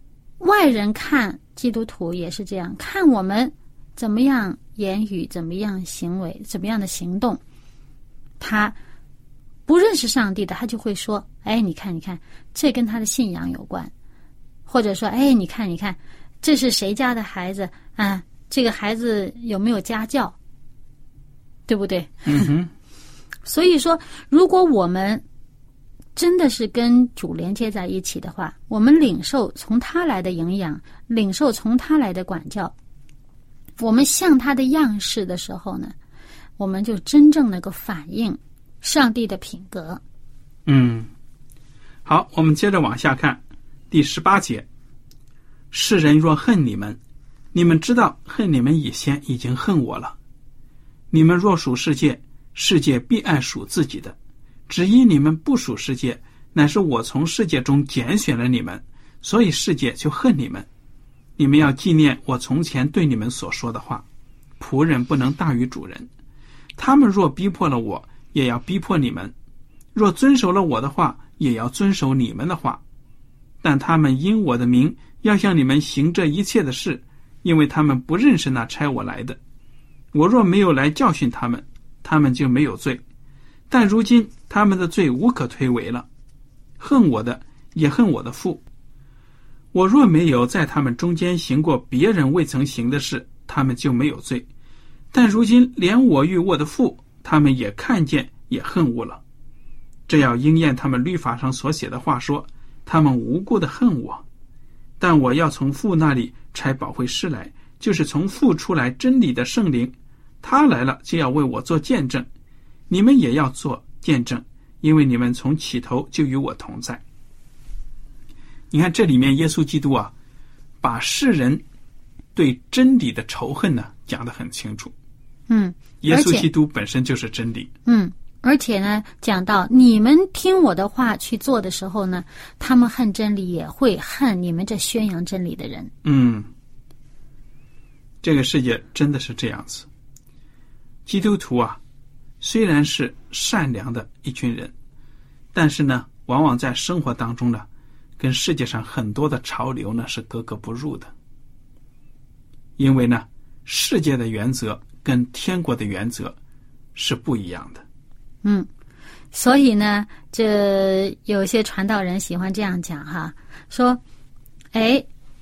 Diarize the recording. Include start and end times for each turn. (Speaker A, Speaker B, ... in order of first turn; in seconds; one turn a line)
Speaker A: 0.4-7.4
Speaker A: 8.4-8.8
Speaker A: 9.7-13.9
Speaker A: 14.7-20.4
Speaker A: 21.7-22.5
Speaker B: 22.3-22.7
Speaker A: 23.4-25.2
Speaker A: 26.2-32.7
Speaker A: 33.8-36.0
Speaker A: 36.6-40.0
Speaker B: 40.7-41.1
Speaker B: 42.0-44.7
Speaker B: 45.7-47.0
Speaker B: 47.5-50.2
Speaker B: 51.1-54.2
Speaker B: 54.7-60.7
Speaker B: 61.4-64.0
Speaker B: 64.6-66.1
Speaker B: 66.8-69.3
Speaker B: 70.0-72.8
Speaker B: 73.6-79.4
Speaker B: 80.1-83.0
Speaker B: 83.7-86.1
Speaker B: 86.8-88.6
Speaker B: 89.7-94.5
Speaker B: 95.1-99.2
Speaker B: 100.1-104.2
Speaker B: 105.0-112.3
Speaker B: 112.9-117.0
Speaker B: 118.7-120.1
Speaker B: 120.8-121.6
Speaker B: 122.4-124.9
Speaker A: 125.5-126.5
Speaker B: 126.0-127.7
Speaker A: 127.9-135.9
Speaker B: 136.0-136.5
Speaker B: 138.2-139.9
Speaker B: 141.1-141.8
Speaker B: 142.4-144.7
Speaker B: 145.5-147.7
Speaker B: 148.2-151.1
Speaker B: 152.8-156.4
Speaker B: 156.9-157.8
Speaker A: 159.3-164.0
Speaker A: 164.7-165.1